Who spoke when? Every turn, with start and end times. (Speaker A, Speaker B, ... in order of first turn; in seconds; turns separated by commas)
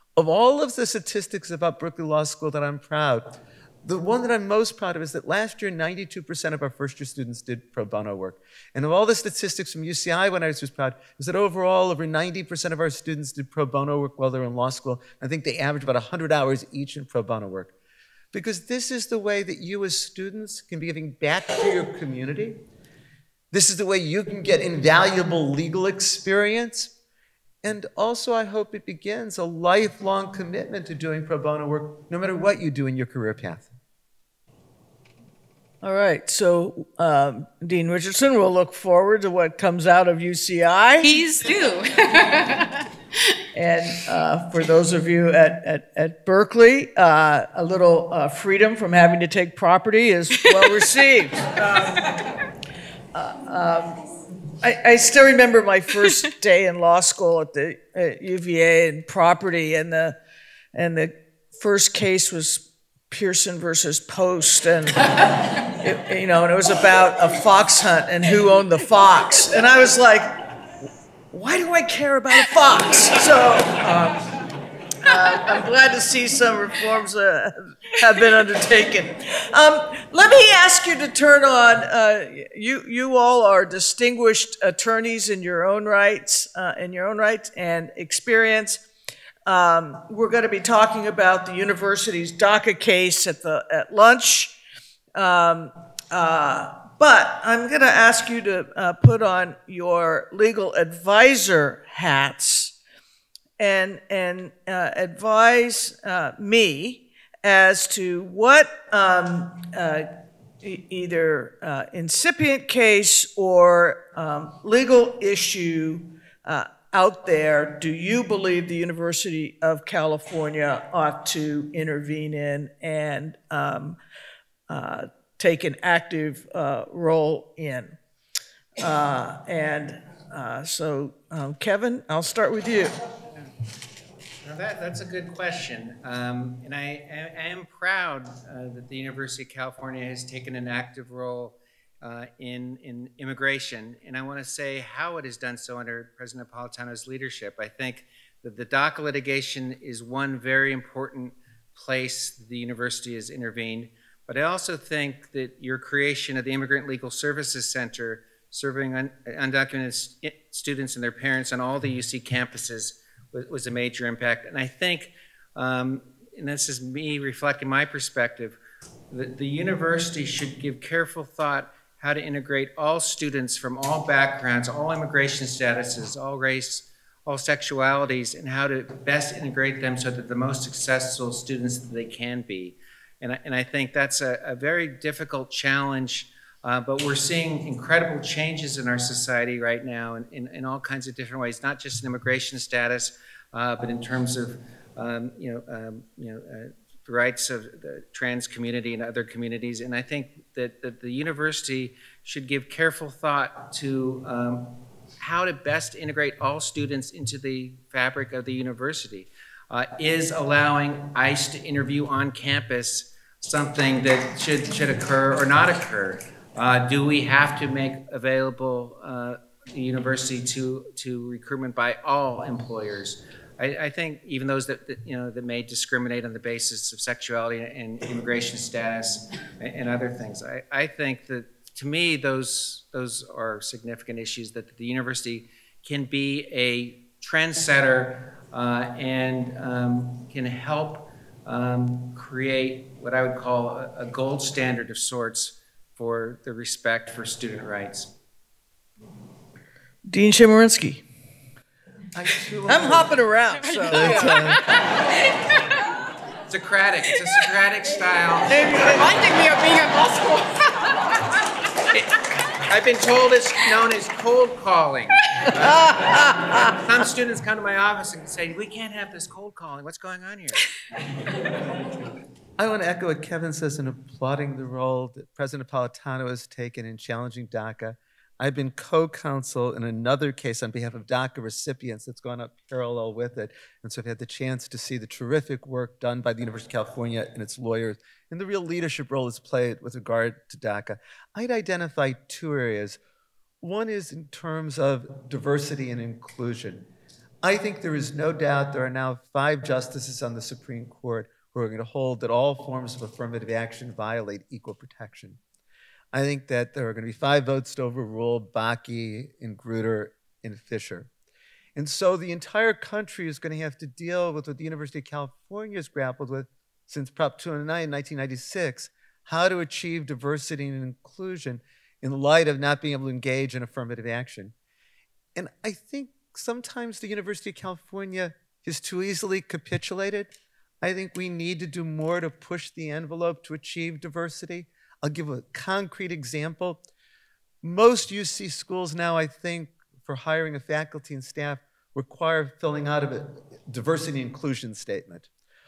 Speaker A: 0.1-17.7, Speaker A: 18.3-22.6, Speaker A: 23.5-26.9, Speaker A: 27.6-33.7, Speaker B: 35.8-41.1, Speaker C: 41.0-42.8, Speaker B: 43.5-52.1, Speaker B: 53.1-54.0, Speaker B: 54.6-60.2, Speaker B: 60.7-70.5, Speaker B: 71.3-74.4, Speaker B: 75.0-88.8, Speaker B: 89.5-94.5, Speaker B: 95.1-102.7, Speaker B: 103.6-124.0, Speaker B: 124.7-127.9, Speaker B: 128.8-133.0, Speaker D: 134.4-168.6, Speaker D: 169.1-248.1, Speaker B: 250.1-251.0, Speaker A: 252.1-253.2, Speaker B: 252.7-254.5, Speaker C: 253.6-254.8, Speaker A: 253.9-254.6, Speaker D: 256.5-259.0, Speaker B: 258.5-259.1, Speaker C: 258.9-260.7, Speaker D: 262.7-270.6, Speaker B: 266.0-266.7, Speaker A: 272.6-293.0, Speaker A: 293.6-296.9, Speaker A: 297.4-305.4, Speaker A: 306.1-311.1, Speaker A: 311.7-324.5, Speaker A: 325.3-336.8, Speaker A: 337.6-345.3